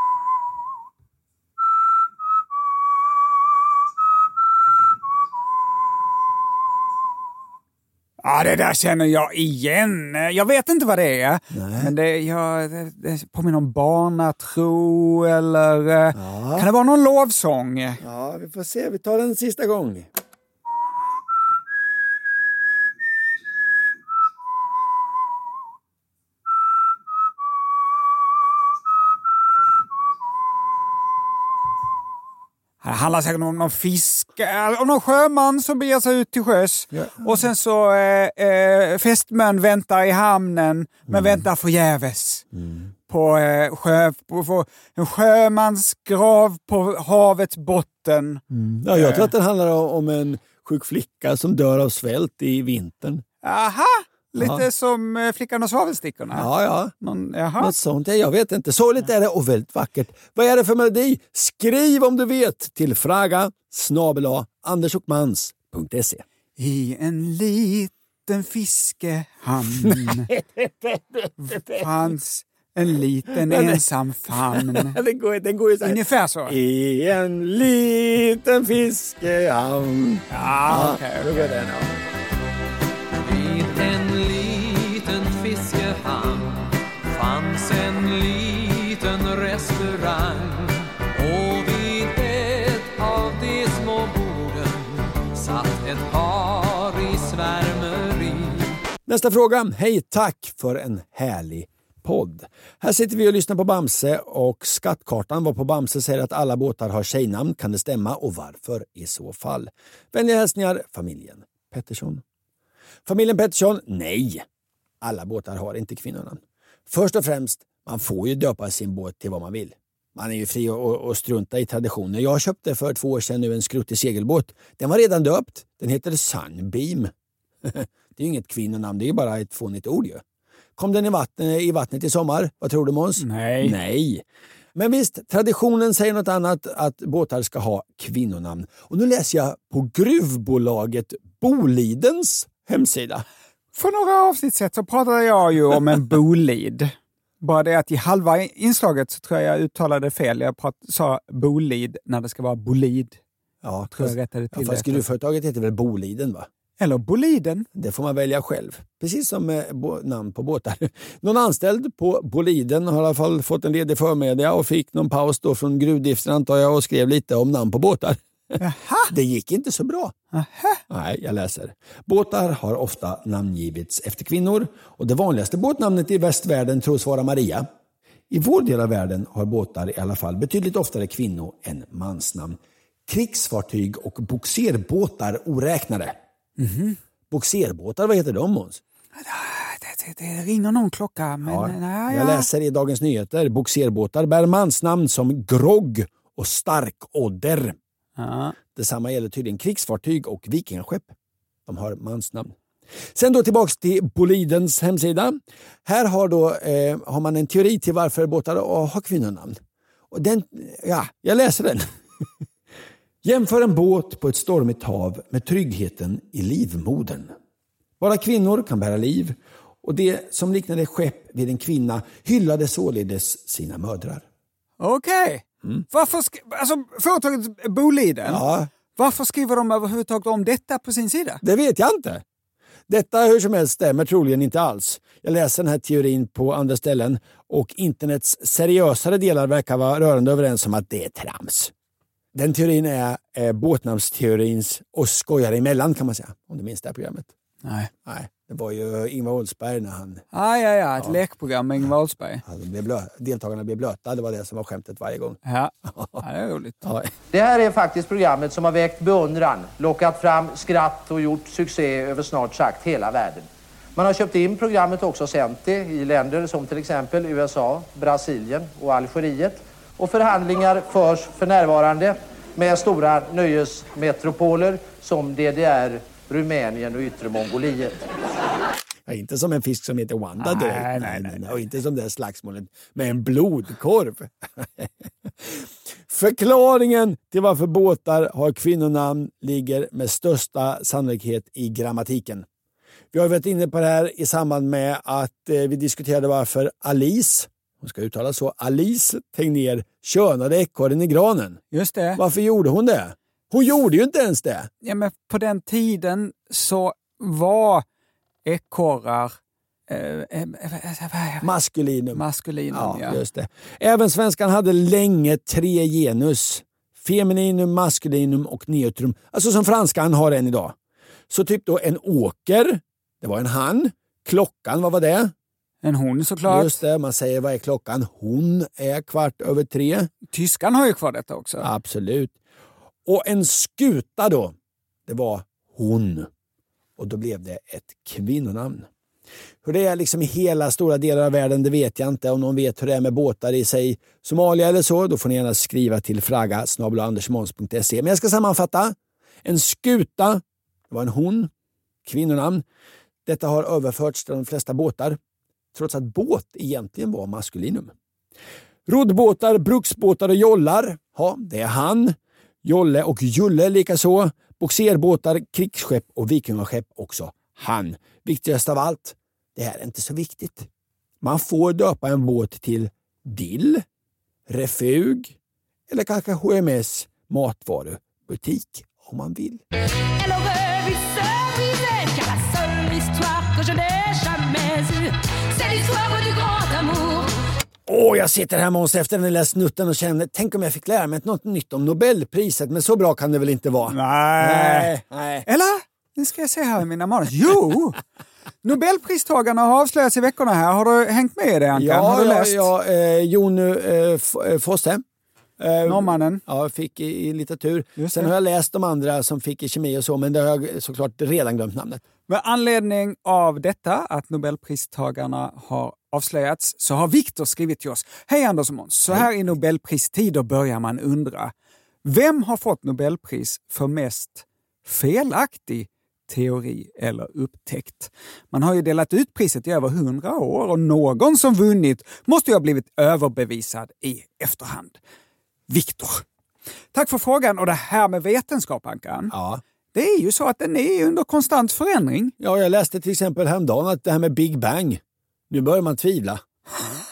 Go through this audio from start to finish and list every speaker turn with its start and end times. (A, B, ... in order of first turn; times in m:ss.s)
0:08.2-0:18.0 A
0:11.5-0:11.9 B
0:16.2-0:16.7 B
0:18.0-0:20.1 B
0:32.8-0:42.5 A
0:36.9-0:37.5 B
0:41.1-0:41.4 B
0:42.6-0:42.9 B
0:43.1-0:48.4 A
0:48.5-0:53.2 B
0:48.9-0:49.3 A
0:53.4-0:56.5 A
0:54.4-0:54.6 B
0:56.4-0:56.9 B
0:57.0-0:57.7 A
0:57.6-1:06.2 B
1:06.6-1:10.3 A
1:09.8-1:11.9 B
1:11.4-1:15.0 A
1:13.4-1:21.9 B
1:15.8-1:16.6 A
1:20.3-1:21.3 A
1:23.2-1:38.8 C
1:39.1-1:52.2 B
1:53.1-1:54.5 B
1:55.0-2:07.1 B
2:07.6-2:10.2 B
2:10.8-2:14.2 B
2:13.2-2:13.8 A
2:14.8-2:23.2 B
2:23.8-2:33.2 A
2:33.6-2:36.5 B
2:33.9-2:35.0 A
2:36.8-2:37.7 A
2:37.8-2:50.2 B
2:48.6-2:49.1 A
2:50.3-2:50.8 A
2:50.9-2:57.7 B
2:58.3-3:06.2 B
3:06.6-3:07.0 A
3:07.3-3:08.8 B
3:09.2-3:12.5 A
3:11.4-3:17.8 B
3:18.2-3:18.6 A
3:18.7-3:21.1 B
3:21.7-3:22.6 B
3:23.1-3:29.6 B
3:30.1-3:32.2 B
3:33.2-3:37.3 B
3:38.0-3:44.2 B
3:44.8-3:48.4 A
3:48.3-3:48.7 B
3:49.0-3:51.4 A
3:51.4-3:52.2 B
3:52.9-4:01.7 B
4:02.3-4:07.3 B
4:07.6-4:07.9 A
4:08.0-4:10.2 B
4:10.3-4:12.4 A
4:12.4-4:16.2 B
4:15.5-4:16.8 A
4:16.8-4:17.1 B
4:17.3-4:38.1 D
4:39.1-4:52.5 B
4:40.4-4:41.5 A
4:53.1-5:01.6 B
5:01.7-5:02.2 A
5:02.2-5:04.7 B
5:04.8-5:07.8 A
5:08.4-5:09.4 A
5:09.9-5:11.5 A
5:11.4-5:20.8 B
5:12.2-5:13.2 A
5:21.3-5:25.3 B
5:25.8-5:26.8 A
5:26.5-5:30.1 B
5:30.3-5:31.7 A
5:31.6-5:32.4 B
5:33.1-5:34.6 B
5:35.1-5:36.3 B
5:37.0-5:38.9 B
5:39.6-5:51.5 B
5:52.0-5:52.6 B
5:53.3-5:55.2 B
5:55.7-5:57.9 B
5:58.9-6:10.7 B
6:11.2-6:13.8 B
6:14.5-6:15.4 B
6:15.9-6:19.6 B
6:27.9-6:35.5 B
6:33.9-6:34.9 A
6:35.5-6:38.0 A
6:38.6-6:42.7 A
6:41.8-6:45.0 B
6:45.6-6:52.0 B
6:45.9-6:46.4 A
6:48.0-6:48.3 A
6:52.3-7:01.5 A
7:02.0-7:15.0 A
7:15.7-7:16.2 A
7:16.9-7:19.3 A
7:19.3-7:19.6 B
7:19.9-7:22.3 A
7:22.4-7:26.4 B